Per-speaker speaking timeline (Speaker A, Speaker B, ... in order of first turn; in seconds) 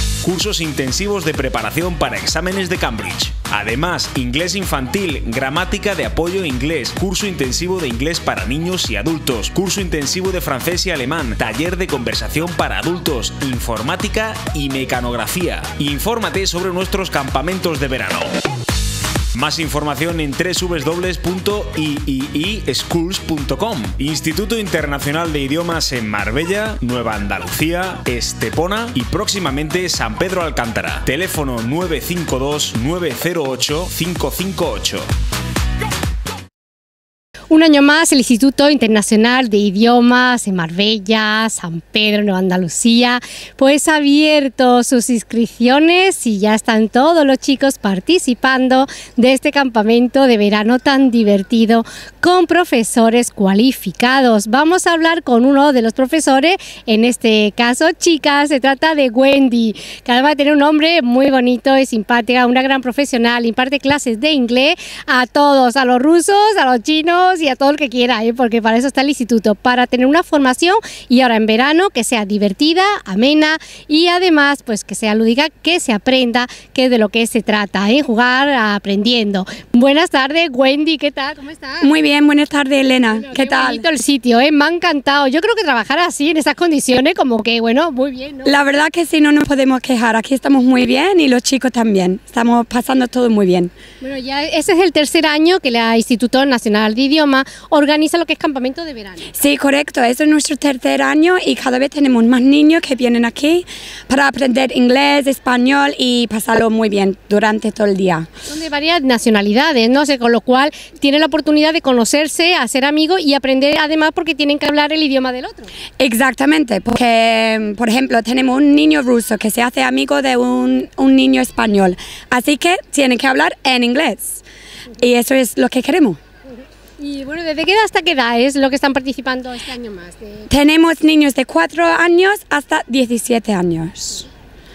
Speaker A: 0.2-18.3, 19.3-35.0
Speaker B: 37.5-81.9, 83.1-88.6, 94.0-99.3, 108.5-115.7, 127.0-130.5
Speaker C: 81.8-83.8, 88.4-93.7, 99.3-108.3, 116.0-124.4, 125.0-126.2, 130.5-134.2